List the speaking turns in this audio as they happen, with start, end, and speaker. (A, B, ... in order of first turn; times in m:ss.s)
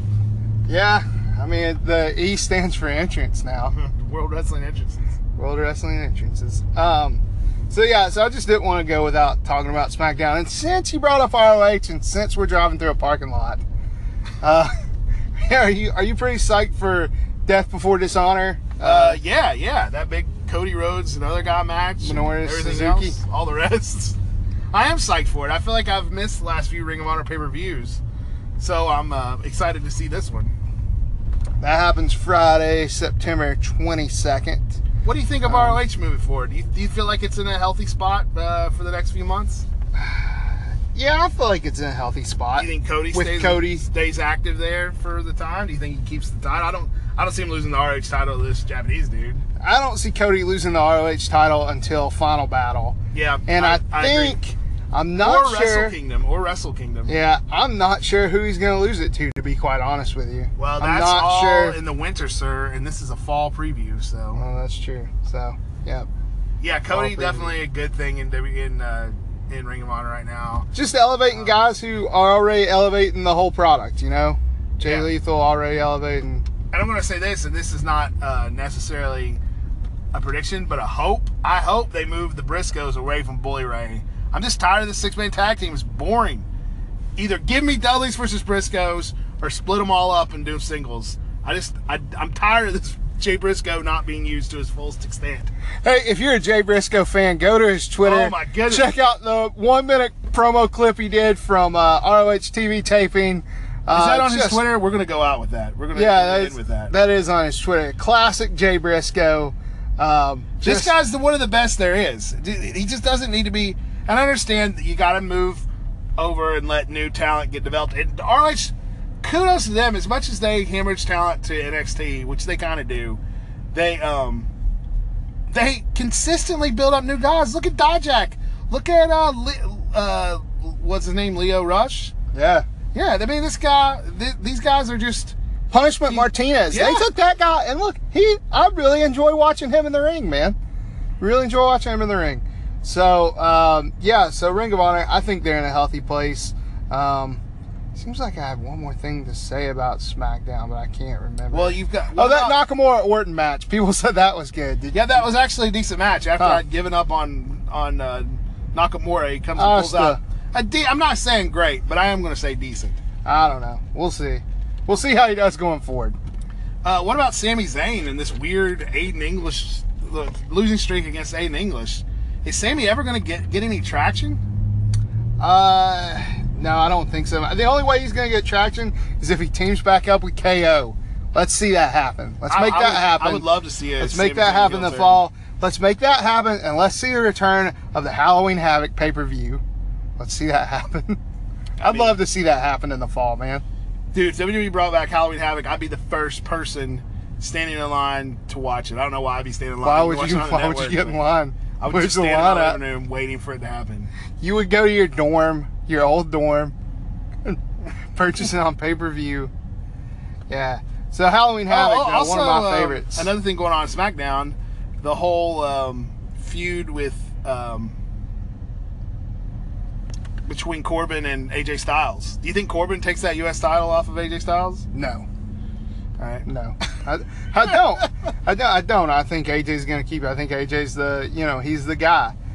0:00.7-0:03.8 A
0:03.7-0:05.1 B
0:05.4-0:13.6 A
0:14.4-0:14.7 A
0:15.4-0:19.2 A
0:18.8-0:24.2 B
0:22.0-0:23.2 A
0:24.7-0:28.0 B
0:28.6-0:30.5 B
0:31.6-0:34.8 A
0:35.0-0:39.6 B
0:35.4-0:35.8 A
0:39.9-0:43.8 A
0:42.6-0:49.4 B
0:49.6-0:56.0 A
0:53.1-0:54.4 B
0:55.2-0:57.1 B
0:57.1-1:01.8 A
1:00.6-1:04.4 B
1:04.3-1:06.1 A
1:06.6-1:10.7 B
1:06.9-1:07.6 A
1:10.7-1:16.4 A
1:11.3-1:11.6 B
1:14.8-1:15.1 B
1:16.7-1:19.4 B
1:20.1-1:26.5 B
1:27.2-1:35.5 B
1:35.8-1:44.6 A
1:38.0-1:38.9 B
1:43.9-1:46.9 B
1:45.9-1:51.0 A
1:50.6-1:55.6 B
1:56.2-2:03.2 B
2:03.7-2:04.5 B
2:05.5-2:12.1 B
2:12.3-2:12.6 A
2:12.9-2:15.3 B
2:15.7-2:20.6 A
2:16.1-2:17.1 B
2:21.2-2:27.4 A
2:27.9-2:35.2 A
2:31.5-2:32.6 B
2:34.9-2:43.0 B
2:36.4-2:36.6 A
2:39.6-2:40.2 A
2:43.2-2:46.2 A
2:46.8-2:54.4 B
2:55.4-3:09.6 A
3:02.5-3:05.2 B
3:10.2-3:11.2 A
3:11.8-3:12.2 B
3:11.8-3:13.6 A
3:14.1-3:21.2 B
3:19.8-3:22.8 A
3:21.8-3:24.1 B
3:24.4-3:26.7 A
3:28.1-3:29.5 A
3:30.5-3:33.3 A
3:31.7-3:38.0 B
3:40.4-3:44.8 B
3:44.9-3:45.2 A
3:46.2-3:46.4 B
3:46.4-3:52.3 A